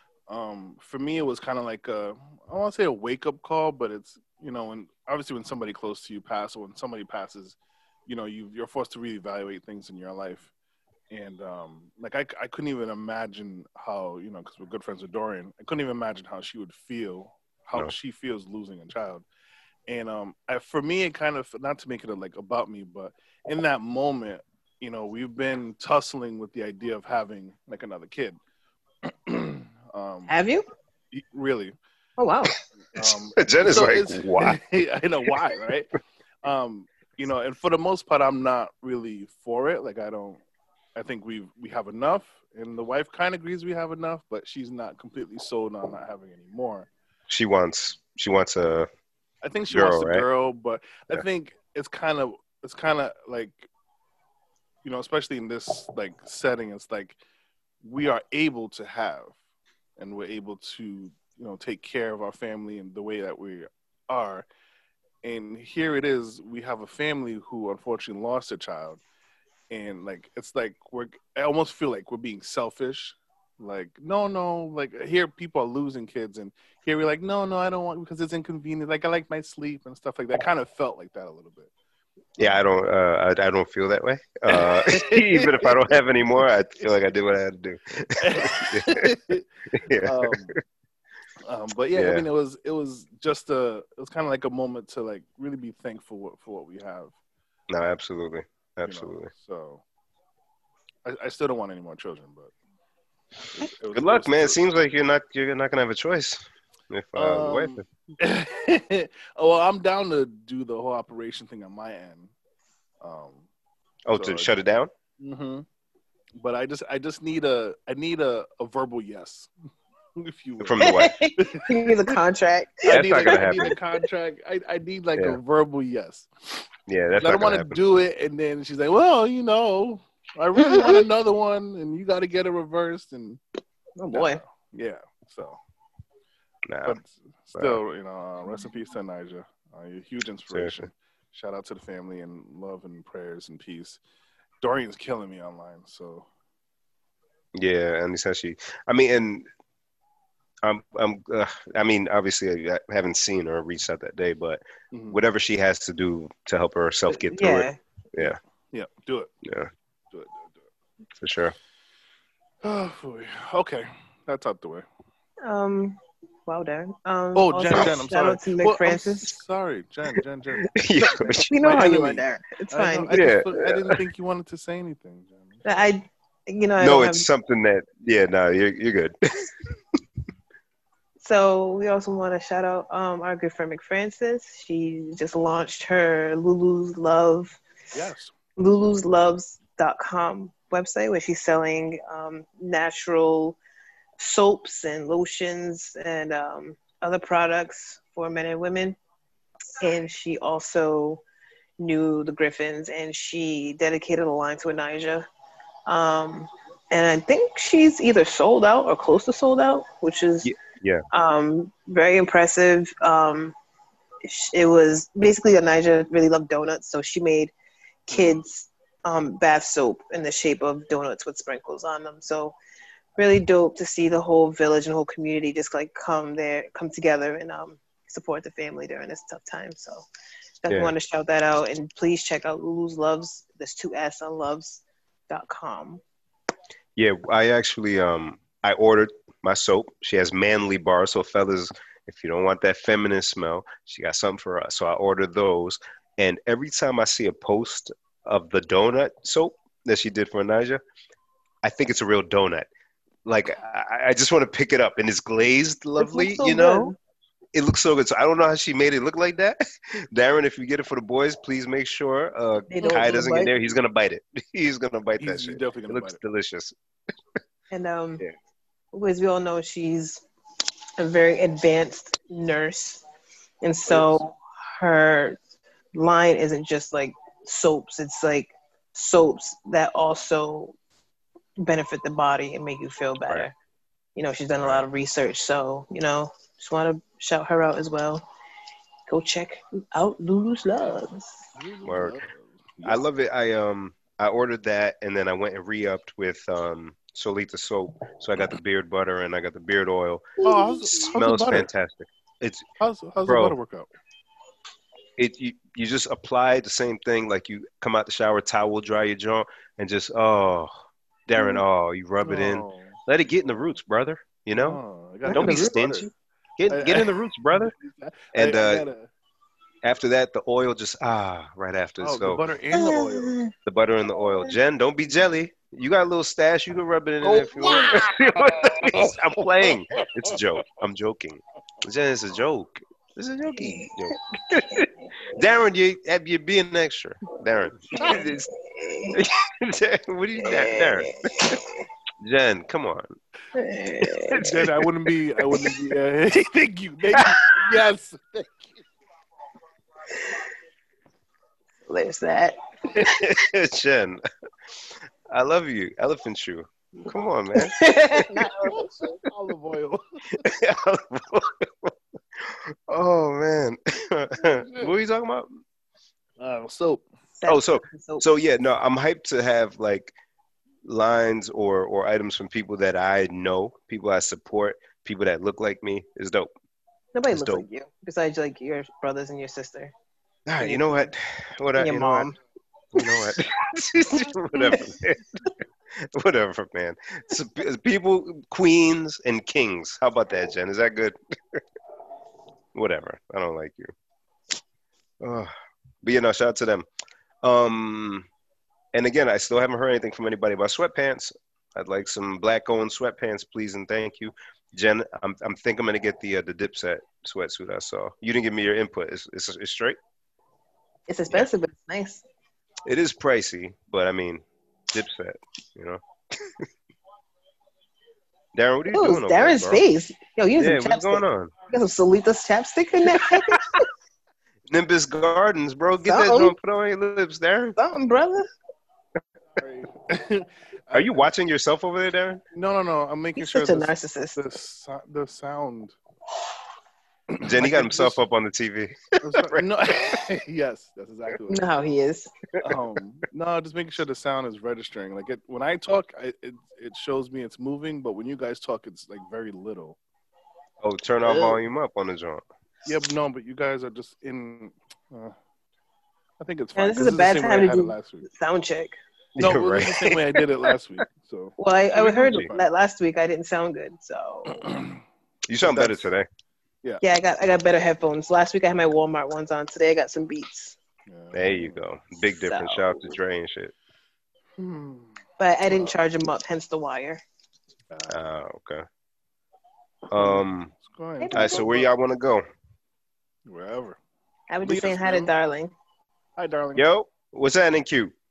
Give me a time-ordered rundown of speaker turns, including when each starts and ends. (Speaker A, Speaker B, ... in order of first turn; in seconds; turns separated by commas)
Speaker A: 0.3-10.5, Speaker A: 11.1-19.2, Speaker A: 19.9-28.4, Speaker A: 29.0-30.3, Speaker B: 30.3-30.6, Speaker A: 31.1-31.8, Speaker B: 32.2-32.5, Speaker A: 32.9-35.9, Speaker C: 33.0-34.6, Speaker A: 36.4-40.4, Speaker A: 41.0-46.9, Speaker C: 47.3-48.9, Speaker A: 49.4-53.7, Speaker C: 49.7-50.2, Speaker A: 54.8-57.2, Speaker A: 57.8-59.4, Speaker A: 60.0-64.5, Speaker A: 65.2-69.0, Speaker A: 69.7-81.7, Speaker A: 82.4-82.6, Speaker C: 82.4-89.1, Speaker A: 84.5-86.0, Speaker A: 88.2-89.5, Speaker C: 89.7-90.3, Speaker A: 90.0-90.5, Speaker A: 91.4-97.1, Speaker C: 91.9-92.2, Speaker C: 97.7-99.3, Speaker A: 98.8-99.8, Speaker A: 101.0-102.5, Speaker A: 103.5-104.7, Speaker C: 103.9-107.8, Speaker A: 107.1-112.3, Speaker A: 113.0-113.4, Speaker C: 114.0-114.9, Speaker A: 114.1-114.5, Speaker A: 115.2-115.7, Speaker A: 116.3-119.5, Speaker A: 120.2-122.1, Speaker C: 120.6-121.2, Speaker B: 120.8-123.7, Speaker A: 122.8-126.7, Speaker C: 122.9-123.8, Speaker C: 126.9-127.8, Speaker A: 127.2-133.4, Speaker B: 134.0-134.4, Speaker A: 134.1-135.6, Speaker C: 136.7-137.0, Speaker A: 136.8-144.0, Speaker C: 137.5-137.8, Speaker C: 140.5-140.9, Speaker A: 144.6-146.3, Speaker C: 147.5-149.5, Speaker C: 150.6-158.4, Speaker A: 154.9-155.2, Speaker B: 157.1-157.8, Speaker A: 158.7-159.3, Speaker C: 159.4-159.7, Speaker A: 160.1-160.6, Speaker C: 161.2-161.5, Speaker A: 162.6-164.9, Speaker B: 165.4-169.3, Speaker A: 167.3-170.7, Speaker C: 170.6-171.5, Speaker B: 171.2-173.1, Speaker A: 171.6-175.7, Speaker C: 173.1-174.0, Speaker B: 175.6-177.2, Speaker C: 176.8-179.5, Speaker B: 181.2-187.6, Speaker A: 187.9-188.3, Speaker B: 188.6-193.6, Speaker B: 194.2-198.9, Speaker B: 199.8-201.2, Speaker B: 201.8-205.2, Speaker B: 205.9-210.5, Speaker C: 210.4-211.0, Speaker B: 211.1-213.5, Speaker B: 214.2-217.5, Speaker B: 218.1-222.5, Speaker B: 223.2-230.0, Speaker B: 230.6-236.0, Speaker C: 230.7-230.9, Speaker C: 236.9-250.8, Speaker C: 251.6-252.7, Speaker C: 253.2-256.9, Speaker B: 256.0-256.9, Speaker C: 257.5-266.7, Speaker B: 262.7-263.5, Speaker A: 262.8-263.2, Speaker A: 265.2-266.2, Speaker B: 267.7-268.2, Speaker B: 268.9-270.2, Speaker B: 271.0-273.0, Speaker B: 273.6-275.4, Speaker B: 275.9-280.7, Speaker B: 281.6-283.5, Speaker B: 284.1-288.2, Speaker B: 289.1-291.5, Speaker A: 291.5-293.0, Speaker C: 291.8-292.2, Speaker C: 292.8-300.2, Speaker B: 300.4-301.1, Speaker A: 300.4-301.7, Speaker C: 301.1-302.7, Speaker A: 302.8-303.9, Speaker C: 303.2-303.5, Speaker C: 305.2-310.7, Speaker C: 311.3-317.7, Speaker A: 312.2-313.0, Speaker A: 314.6-316.1, Speaker B: 315.2-315.5, Speaker A: 316.7-319.1, Speaker C: 318.3-318.9, Speaker C: 319.8-322.4, Speaker A: 322.0-323.4, Speaker B: 322.7-323.5, Speaker C: 323.6-338.5, Speaker A: 327.2-330.4, Speaker B: 333.5-333.9, Speaker A: 337.9-338.3, Speaker B: 337.9-339.2, Speaker C: 339.1-341.6, Speaker B: 340.4-341.8, Speaker C: 342.2-343.1, Speaker B: 343.5-344.5, Speaker C: 344.0-344.9, Speaker A: 344.4-348.8, Speaker C: 347.1-347.4, Speaker B: 351.9-353.1, Speaker C: 352.9-354.2, Speaker C: 354.8-358.5, Speaker B: 357.5-358.9, Speaker A: 358.6-360.4, Speaker C: 360.4-365.6, Speaker A: 364.4-364.9, Speaker A: 366.4-367.0, Speaker B: 367.4-368.2, Speaker C: 367.4-370.1, Speaker C: 370.8-376.5, Speaker B: 377.1-379.9, Speaker C: 377.3-377.6, Speaker C: 380.5-382.4, Speaker B: 380.6-381.1, Speaker B: 381.8-382.3, Speaker C: 382.9-385.4, Speaker C: 385.9-391.6, Speaker C: 392.7-393.9, Speaker C: 395.2-396.9, Speaker C: 397.4-398.3, Speaker C: 398.9-410.0, Speaker B: 411.1-412.2, Speaker C: 412.9-416.7, Speaker C: 418.5-419.8, Speaker B: 418.9-423.9, Speaker C: 420.6-421.5, Speaker C: 424.7-427.8, Speaker B: 426.0-426.5, Speaker B: 427.8-428.5, Speaker A: 429.6-431.3, Speaker C: 430.9-432.4, Speaker A: 432.5-435.9, Speaker B: 433.4-434.4, Speaker A: 437.3-438.2, Speaker C: 437.4-439.6, Speaker A: 439.2-441.6, Speaker B: 441.5-442.3, Speaker A: 442.6-450.0, Speaker C: 450.8-452.4, Speaker A: 452.9-455.4, Speaker A: 456.4-458.2, Speaker B: 456.8-458.9, Speaker C: 459.4-460.4, Speaker A: 459.4-462.7, Speaker B: 461.6-464.6, Speaker A: 464.5-465.0, Speaker C: 465.5-466.3, Speaker A: 465.6-466.0, Speaker B: 467.0-470.8, Speaker A: 471.1-471.8, Speaker C: 471.3-473.7, Speaker B: 472.3-473.0, Speaker A: 474.6-476.0, Speaker B: 475.4-477.2, Speaker A: 477.9-478.2, Speaker C: 478.1-478.8, Speaker C: 480.1-480.7, Speaker A: 480.1-481.9, Speaker B: 481.2-481.7, Speaker C: 481.3-482.4, Speaker A: 483.4-484.0, Speaker B: 484.5-485.7, Speaker A: 484.6-485.3, Speaker A: 486.4-486.9, Speaker C: 486.8-488.1